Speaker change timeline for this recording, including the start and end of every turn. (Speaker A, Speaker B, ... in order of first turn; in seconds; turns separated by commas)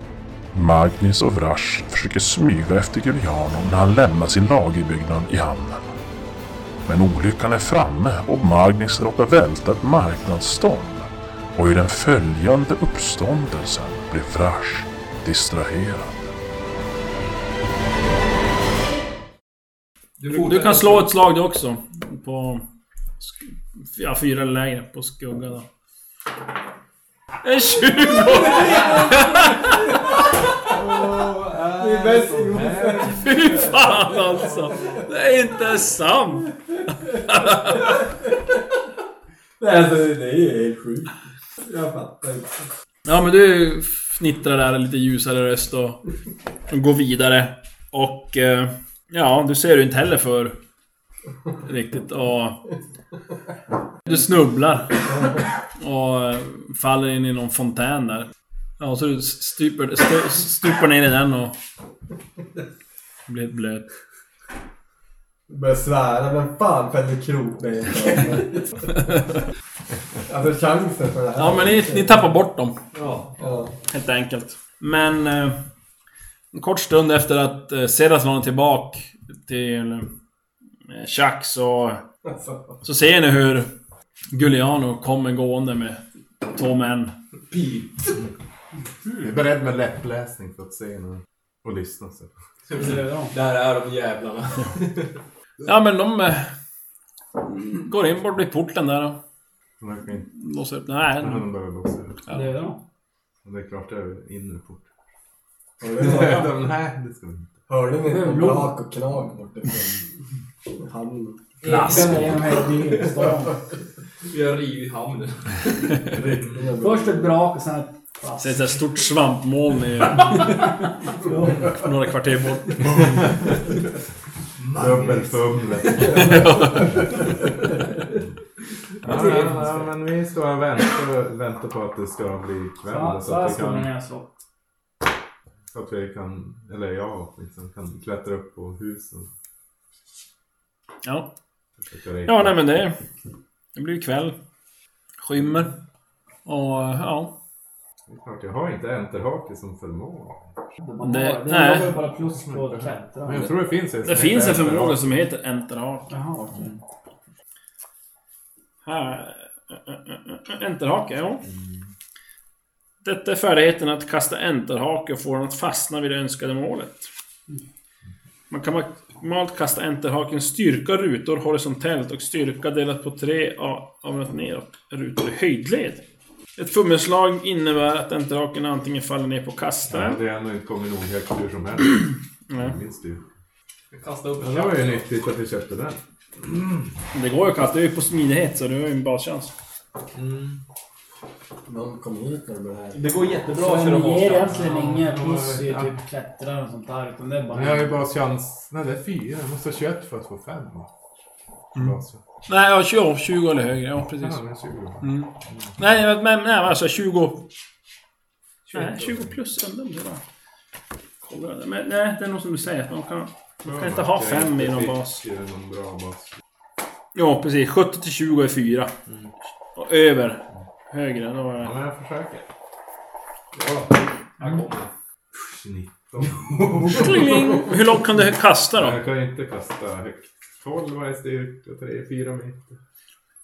Speaker A: 0.5-6.0, Speaker A: 6.9-16.2, Speaker B: 20.2-21.1, Speaker C: 20.3-22.6, Speaker C: 23.2-25.6, Speaker C: 27.4-30.2, Speaker D: 30.6-33.9, Speaker E: 30.8-35.0, Speaker C: 33.1-36.5, Speaker C: 37.1-38.0, Speaker E: 37.5-38.6, Speaker E: 39.6-42.7, Speaker C: 43.1-46.0, Speaker C: 46.7-50.6, Speaker C: 51.6-52.7, Speaker C: 54.0-58.3, Speaker C: 58.8-61.5, Speaker C: 63.3-63.9, Speaker E: 65.5-68.8, Speaker C: 69.0-69.3, Speaker E: 70.3-72.3, Speaker C: 71.4-72.8, Speaker B: 72.9-73.3, Speaker E: 73.4-73.8, Speaker C: 73.9-75.6, Speaker C: 76.5-80.1, Speaker C: 80.9-82.0, Speaker E: 82.2-82.8, Speaker C: 82.8-83.7, Speaker C: 84.3-87.1, Speaker B: 87.5-88.2, Speaker D: 89.2-92.3, Speaker B: 92.7-95.2, Speaker F: 92.7-93.3, Speaker C: 95.6-96.5, Speaker C: 97.4-99.2, Speaker D: 99.8-100.3, Speaker C: 100.3-101.5, Speaker D: 101.2-102.2, Speaker F: 102.3-102.8, Speaker D: 103.5-104.9, Speaker E: 105.8-106.5, Speaker D: 106.0-107.5, Speaker E: 107.7-110.1, Speaker F: 108.0-108.8, Speaker E: 110.7-112.0, Speaker C: 111.7-112.3, Speaker B: 111.7-113.1, Speaker F: 111.7-113.6, Speaker B: 114.3-116.1, Speaker E: 116.1-117.4, Speaker D: 116.3-116.7, Speaker F: 116.8-118.8, Speaker C: 118.4-120.8, Speaker F: 121.2-121.7, Speaker C: 121.5-123.3, Speaker B: 124.6-126.2, Speaker D: 124.8-127.2, Speaker C: 126.2-127.0, Speaker D: 129.0-133.9, Speaker F: 129.0-129.9, Speaker F: 132.9-134.3, Speaker D: 135.7-139.3, Speaker C: 141.0-141.3, Speaker D: 141.9-142.7, Speaker C: 142.3-143.0, Speaker C: 143.8-144.4, Speaker C: 145.2-145.7, Speaker C: 146.4-147.3, Speaker D: 148.1-150.5, Speaker F: 150.8-153.5, Speaker C: 151.0-152.0, Speaker D: 152.2-155.2, Speaker C: 154.0-156.1, Speaker F: 156.1-156.8, Speaker D: 156.5-156.8, Speaker C: 158.8-161.4, Speaker D: 161.5-161.9, Speaker C: 163.0-167.1, Speaker C: 168.5-176.0, Speaker C: 176.6-180.2, Speaker D: 179.9-183.2, Speaker C: 182.5-182.8, Speaker B: 183.9-185.1, Speaker D: 184.4-186.9, Speaker C: 187.1-189.5, Speaker D: 190.1-190.6, Speaker E: 191.7-193.0, Speaker B: 192.9-194.4, Speaker F: 193.5-198.0, Speaker D: 194.5-196.0, Speaker D: 197.5-200.9, Speaker D: 201.8-202.2, Speaker C: 202.5-204.4, Speaker D: 204.2-205.8, Speaker C: 205.0-207.5, Speaker C: 208.7-210.2, Speaker D: 209.0-209.3, Speaker C: 211.2-215.2, Speaker D: 213.7-216.3, Speaker C: 217.1-218.9, Speaker C: 219.8-221.8, Speaker D: 221.6-222.5, Speaker B: 223.5-224.9, Speaker D: 225.3-227.7, Speaker C: 226.9-229.0, Speaker D: 228.7-232.8